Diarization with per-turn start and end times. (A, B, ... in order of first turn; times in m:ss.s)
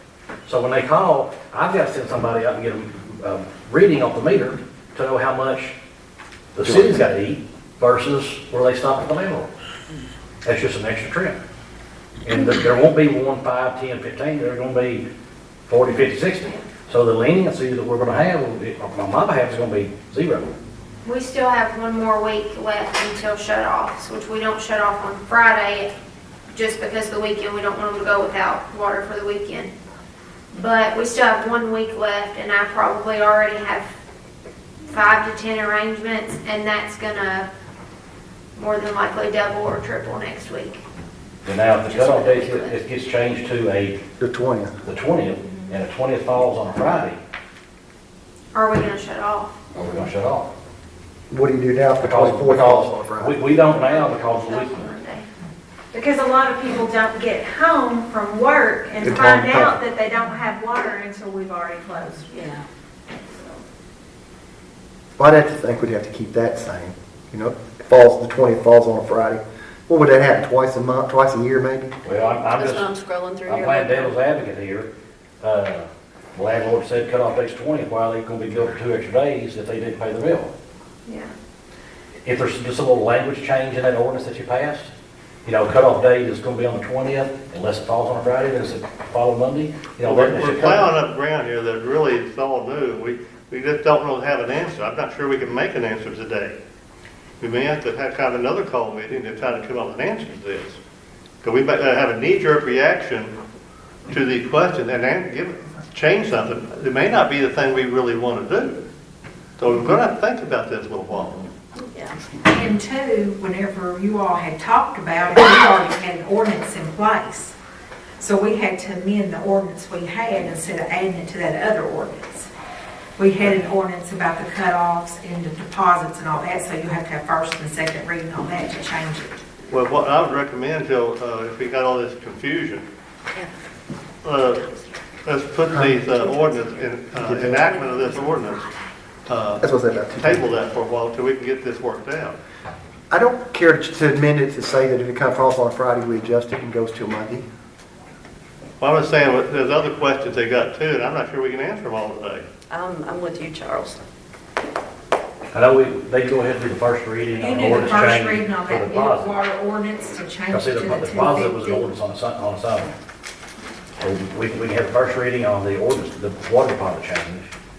0:00.4-0:05.7 A
0:06.5-0:09.5 A
0:10.4-0:11.4 A
0:12.2-0:15.0 A
0:15.7-0:20.5 A
0:21.0-0:25.9 B
0:26.5-0:29.7 B
0:30.5-0:33.9 B
0:34.9-0:37.5 B
0:38.5-0:40.8 B
0:41.4-0:44.0 A
0:41.9-0:42.8 B
0:44.2-0:44.7 C
0:44.8-0:47.2 A
0:48.5-0:49.6 B
0:49.7-0:50.5 A
0:51.3-0:53.5 C
0:52.0-0:54.9 A
0:53.8-0:55.2 B
0:55.9-1:02.2 D
0:59.0-0:59.7 C
1:02.3-1:02.6 E
1:03.2-1:03.5 D
1:05.2-1:11.9 C
1:12.0-1:12.9 A
1:12.5-1:14.2 E
1:13.4-1:14.9 A
1:15.4-1:20.5 A
1:22.2-1:24.9 A
1:25.4-1:30.9 A
1:30.0-1:36.6 F
1:37.4-1:40.8 F
1:41.4-1:43.3 F
1:44.1-1:48.8 F
1:49.6-1:51.5 F
1:51.9-1:52.2 E
1:52.4-1:57.5 G
1:58.2-2:02.5 G
2:03.2-2:09.4 G
2:09.7-2:12.8 F
2:14.2-2:14.7 F
2:14.6-2:14.9 E
2:15.2-2:18.7 F
2:15.7-2:16.0 C
2:16.0-2:18.9 E
2:19.3-2:19.6 F
2:19.6-2:20.5 C
2:20.2-2:22.4 F
2:23.1-2:27.4 C
2:28.8-2:32.4 F
2:32.7-2:34.0 E
2:35.5-2:39.4 A
2:37.4-2:41.9 G
2:40.5-2:42.9 A
2:44.0-2:47.5 A